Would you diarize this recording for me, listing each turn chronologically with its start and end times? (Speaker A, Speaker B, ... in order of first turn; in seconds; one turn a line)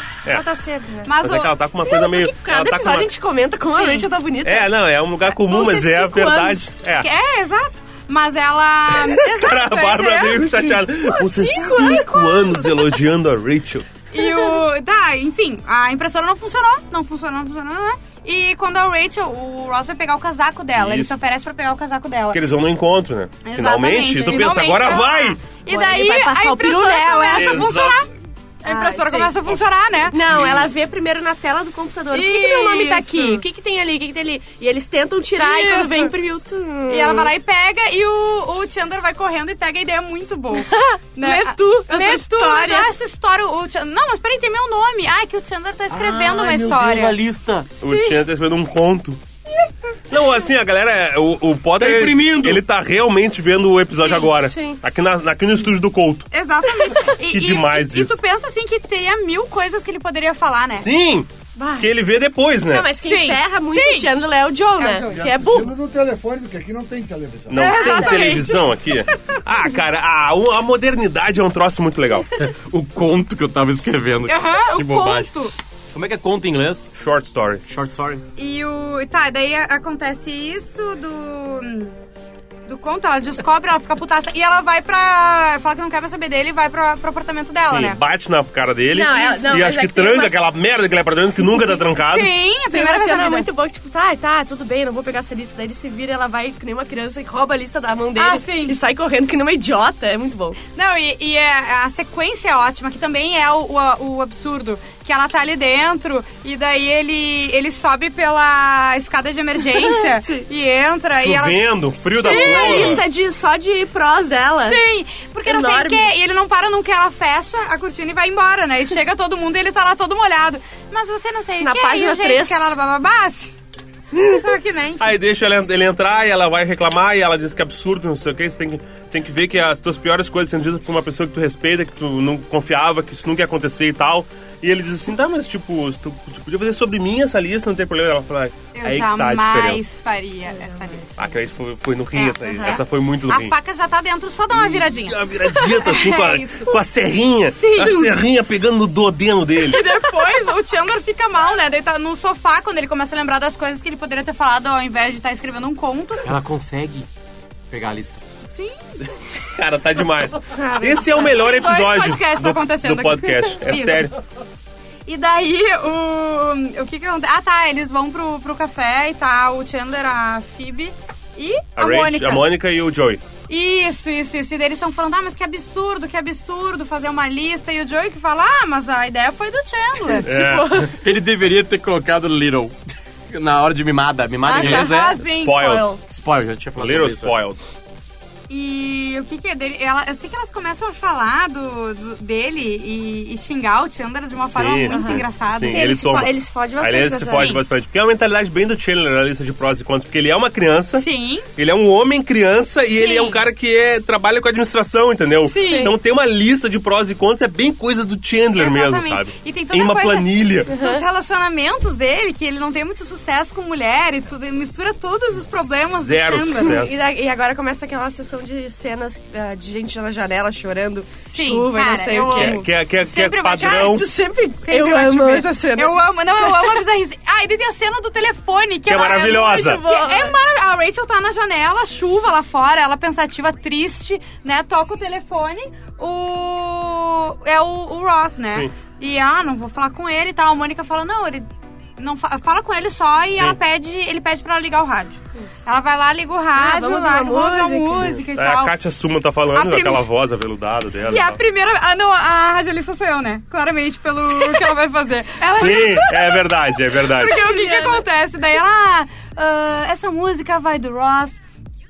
Speaker A: 0.3-1.1
Speaker B: 1.1-1.6
Speaker C: 1.2-3.1
Speaker A: 1.8-4.7
Speaker B: 3.7-4.1
Speaker C: 4.4-7.1
Speaker A: 5.2-6.7
Speaker B: 7.0-10.9
Speaker C: 9.0-13.9
Speaker A: 11.0-12.7
Speaker B: 11.6-12.1
Speaker B: 14.1-22.4
Speaker A: 14.2-14.6
Speaker C: 20.8-21.1
Speaker C: 22.3-25.4
Speaker B: 23.4-28.1
Speaker A: 25.7-27.8
Speaker C: 27.3-28.1
Speaker B: 28.6-30.2
Speaker A: 28.7-29.4
Speaker A: 30.1-37.3
Speaker C: 30.2-30.7
Speaker B: 32.1-33.4
Speaker B: 35.4-36.1
Speaker B: 36.9-47.2
Speaker A: 40.5-42.9
Speaker D: 45.9-47.7
Speaker B: 47.8-48.2
Speaker C: 47.8-49.2
Speaker C: 50.1-56.3
Speaker D: 51.8-52.6
Speaker A: 54.0-54.8
Speaker B: 56.3-60.9
Speaker C: 57.2-58.2
Speaker C: 60.8-62.9
Speaker A: 61.6-61.9
Speaker A: 62.6-65.8
Speaker B: 63.0-64.1
Speaker B: 64.8-65.4
Speaker E: 65.1-67.7
Speaker C: 67.5-72.4
Speaker B: 67.5-68.7
Speaker A: 67.6-68.5
Speaker D: 72.4-75.3
Speaker B: 74.3-75.5
Speaker D: 75.9-76.9
Speaker C: 77.0-77.6
Speaker D: 77.7-78.2
Speaker B: 78.4-82.0
Speaker B: 82.7-88.0
Speaker C: 87.7-92.3
Speaker A: 88.9-90.5
Speaker B: 92.0-93.5
Speaker A: 92.7-100.6
Speaker B: 98.2-98.8
Speaker B: 100.8-111.6
Speaker A: 109.7-110.4
Speaker C: 111.2-113.0
Speaker B: 112.2-113.0
Speaker A: 112.2-114.8
Speaker B: 114.6-123.5
Speaker A: 115.5-116.1
Speaker A: 121.6-122.8
Speaker C: 124.2-124.4
Speaker B: 124.2-125.2
Speaker C: 125.0-139.8
Speaker B: 138.7-141.2
Speaker C: 141.2-143.6
Speaker B: 142.1-146.7
Speaker C: 144.5-149.8
Speaker B: 147.5-148.2
Speaker B: 149.7-156.3
Speaker D: 156.2-157.1
Speaker D: 157.7-158.2
Speaker C: 159.1-164.2
Speaker B: 160.6-164.1
Speaker B: 165.1-172.5
Speaker C: 171.8-173.2
Speaker B: 173.5-180.3
Speaker A: 180.1-180.9
Speaker C: 180.2-180.9
Speaker D: 180.8-182.8
Speaker D: 183.3-185.2
Speaker B: 184.4-185.9
Speaker A: 184.5-185.8
Speaker C: 184.6-186.0
Speaker D: 186.1-187.4
Speaker C: 186.8-187.6
Speaker B: 188.5-195.9
Speaker C: 194.4-210.7
Speaker A: 194.9-197.6
Speaker B: 197.3-197.6
Speaker B: 201.0-201.5
Speaker B: 203.0-203.4
Speaker B: 205.5-205.9
Speaker B: 208.6-216.8
Speaker A: 210.8-211.0
Speaker C: 215.9-217.0
Speaker A: 216.6-222.6
Speaker B: 221.3-224.0
Speaker C: 222.3-224.1
Speaker A: 223.6-226.8
Speaker B: 224.6-241.5
Speaker C: 228.9-229.8
Speaker A: 229.4-230.3
Speaker B: 242.0-248.7
Speaker A: 246.6-248.2
Speaker C: 248.0-251.4
Speaker B: 249.5-250.1
Speaker B: 251.1-261.4
Speaker C: 255.6-257.4
Speaker A: 257.3-258.0